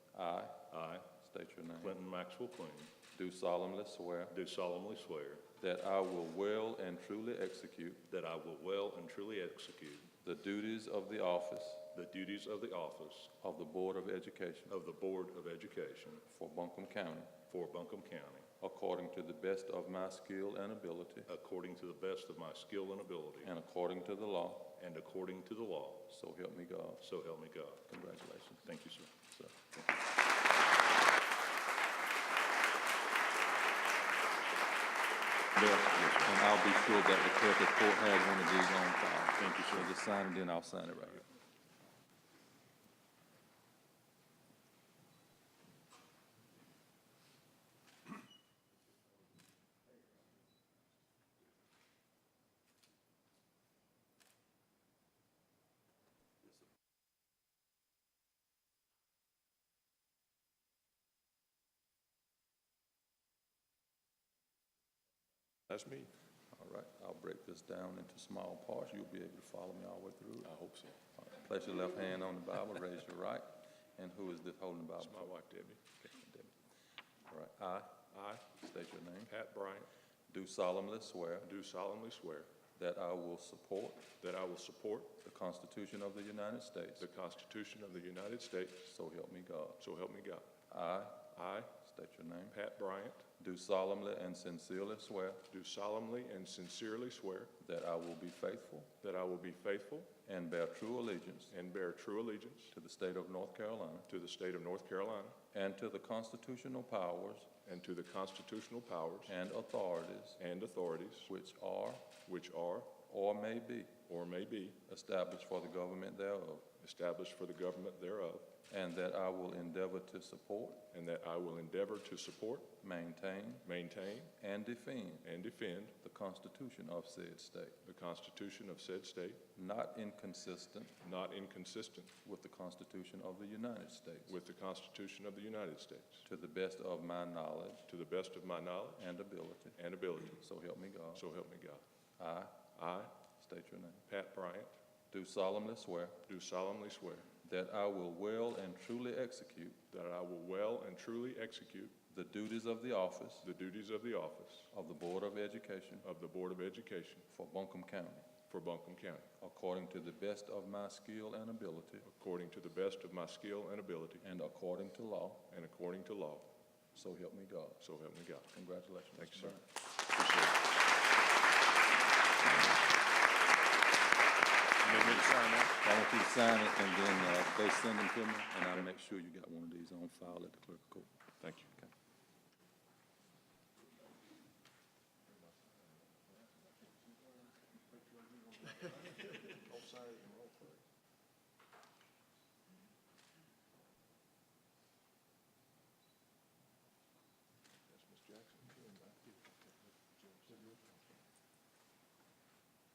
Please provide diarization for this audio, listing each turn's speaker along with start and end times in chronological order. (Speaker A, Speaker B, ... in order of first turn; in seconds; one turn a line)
Speaker A: 0.1-2.0
Speaker B: 0.7-1.1
Speaker B: 1.8-2.9
Speaker A: 3.1-4.3
Speaker B: 4.3-5.4
Speaker A: 5.6-8.0
Speaker B: 8.1-10.1
Speaker A: 10.2-11.9
Speaker B: 11.9-13.3
Speaker A: 13.4-14.7
Speaker B: 14.7-16.2
Speaker A: 16.2-17.3
Speaker B: 17.5-18.5
Speaker A: 18.6-21.3
Speaker B: 21.3-23.5
Speaker A: 23.4-24.7
Speaker B: 24.8-26.1
Speaker A: 26.1-27.0
Speaker B: 27.0-28.0
Speaker A: 27.9-29.6
Speaker B: 28.6-29.2
Speaker B: 35.5-36.4
Speaker A: 36.2-41.3
Speaker B: 39.4-39.9
Speaker C: 65.7-66.1
Speaker A: 66.5-70.5
Speaker C: 70.4-71.0
Speaker A: 71.2-75.4
Speaker C: 75.0-75.9
Speaker A: 75.9-76.5
Speaker A: 77.3-79.3
Speaker C: 78.1-78.5
Speaker C: 79.3-79.9
Speaker A: 80.3-81.5
Speaker C: 81.4-82.5
Speaker A: 82.7-84.1
Speaker C: 84.2-85.1
Speaker A: 85.1-87.0
Speaker C: 87.0-88.9
Speaker A: 88.8-89.8
Speaker C: 89.8-90.5
Speaker A: 90.7-92.6
Speaker C: 91.3-91.8
Speaker C: 92.5-93.3
Speaker A: 93.4-95.4
Speaker C: 95.5-97.5
Speaker A: 97.6-98.9
Speaker C: 99.0-100.2
Speaker A: 100.2-101.5
Speaker C: 101.5-102.7
Speaker A: 102.7-104.1
Speaker C: 104.1-105.4
Speaker A: 105.5-107.5
Speaker C: 107.6-109.3
Speaker A: 109.2-110.4
Speaker C: 110.4-111.3
Speaker A: 111.3-112.1
Speaker C: 112.2-113.0
Speaker A: 113.0-114.0
Speaker C: 114.1-114.8
Speaker A: 114.8-116.7
Speaker C: 116.8-118.6
Speaker A: 118.7-120.8
Speaker C: 120.9-122.8
Speaker A: 122.8-123.7
Speaker C: 123.6-124.3
Speaker A: 124.4-125.2
Speaker C: 125.2-125.9
Speaker A: 125.9-127.8
Speaker C: 127.8-129.4
Speaker A: 129.5-130.9
Speaker C: 131.0-132.1
Speaker A: 132.2-134.4
Speaker C: 134.2-136.2
Speaker A: 136.2-137.8
Speaker C: 137.9-139.1
Speaker A: 139.0-139.8
Speaker C: 139.8-140.4
Speaker A: 140.4-141.2
Speaker C: 141.1-141.8
Speaker A: 142.2-144.0
Speaker C: 142.7-143.1
Speaker C: 144.1-144.8
Speaker A: 145.1-146.2
Speaker C: 146.3-147.3
Speaker A: 147.4-149.8
Speaker C: 149.9-151.9
Speaker A: 152.1-153.5
Speaker C: 153.4-154.7
Speaker A: 154.7-156.1
Speaker C: 156.0-157.2
Speaker A: 157.3-158.3
Speaker C: 158.5-159.3
Speaker A: 159.4-162.1
Speaker C: 162.0-164.3
Speaker A: 164.2-165.5
Speaker C: 165.5-166.5
Speaker A: 166.9-167.8
Speaker C: 167.8-168.5
Speaker A: 168.5-169.6
Speaker C: 169.1-170.7
Speaker C: 174.8-175.7
Speaker A: 175.8-181.1
Speaker C: 181.4-181.7
Speaker C: 189.8-190.7
Speaker C: 197.9-198.8